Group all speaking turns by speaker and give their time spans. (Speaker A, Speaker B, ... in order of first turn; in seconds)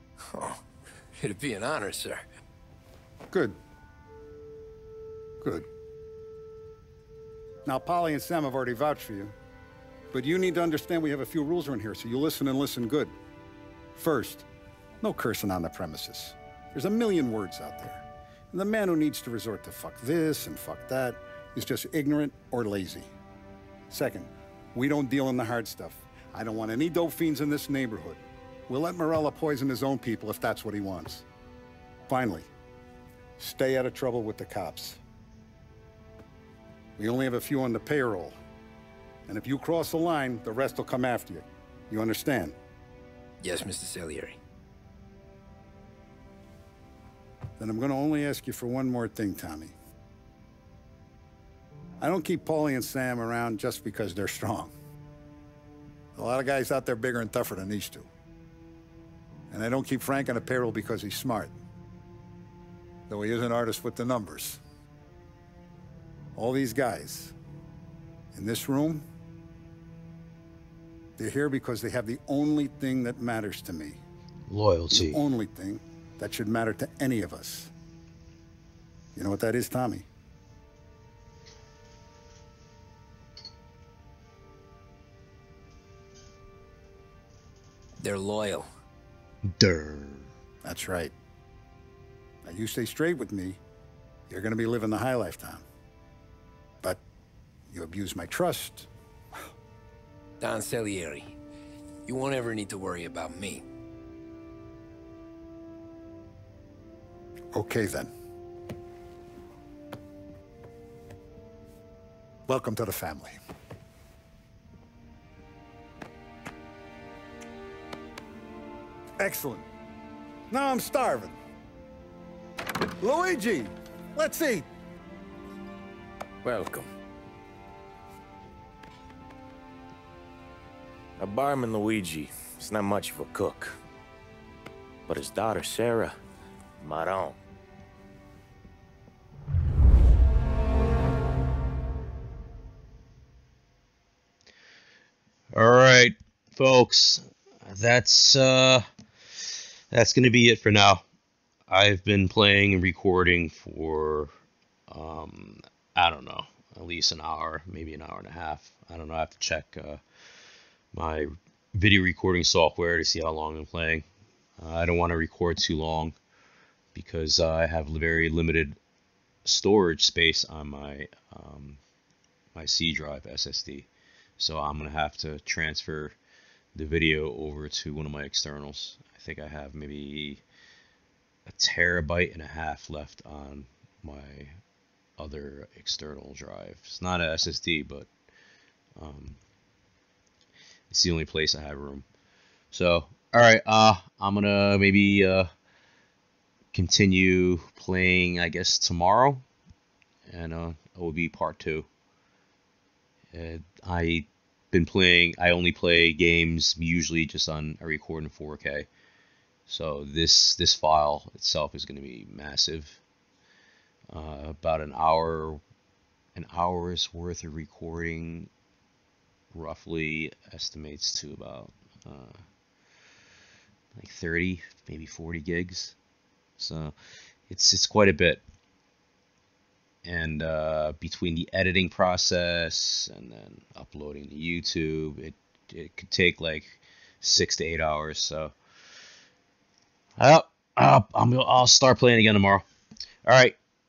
Speaker A: 0.3-0.6, 1.2-2.2, 43.4-44.4, 88.0-88.7, 100.4-101.3, 102.1-103.6
Speaker B: 3.3-3.6, 5.4-5.7, 7.7-9.3, 10.1-13.2, 14.0-14.5, 15.0-23.1, 23.9-31.2, 32.1-32.5, 33.4-35.0, 37.0-38.4, 39.3-42.6, 47.6-49.7, 52.0-54.7, 56.1-58.1, 59.5-61.5, 63.1-64.6, 66.3-67.3, 68.3-69.0, 71.2-74.0, 74.9-77.7, 79.2-80.1, 90.6-91.1, 92.5-93.6, 94.3-95.7, 97.7-98.9, 107.5-108.1, 112.5-113.4, 119.2-119.7, 120.5-121.4, 123.0-124.7
Speaker C: 74.5-75.2, 89.5-90.3, 145.5-151.0, 151.7-154.3, 154.9-160.0, 160.9-164.1, 164.6-166.2, 166.9-168.8, 169.4-171.8, 172.6-173.9, 174.4-176.2, 176.8-180.4, 181.5-184.6, 185.2-188.1, 189.0-189.4, 190.9-192.1, 192.7-195.5, 196.7-199.4, 200.3-201.9, 203.3-208.9, 209.7-213.0, 214.1-215.6, 216.3-218.5, 219.5-222.4, 223.9-226.0, 226.6-226.9, 227.5-228.4, 230.0-238.6, 240.2-242.7, 243.2-243.6
Speaker D: 126.5-126.9, 131.2-133.8, 135.1-136.2, 136.8-137.4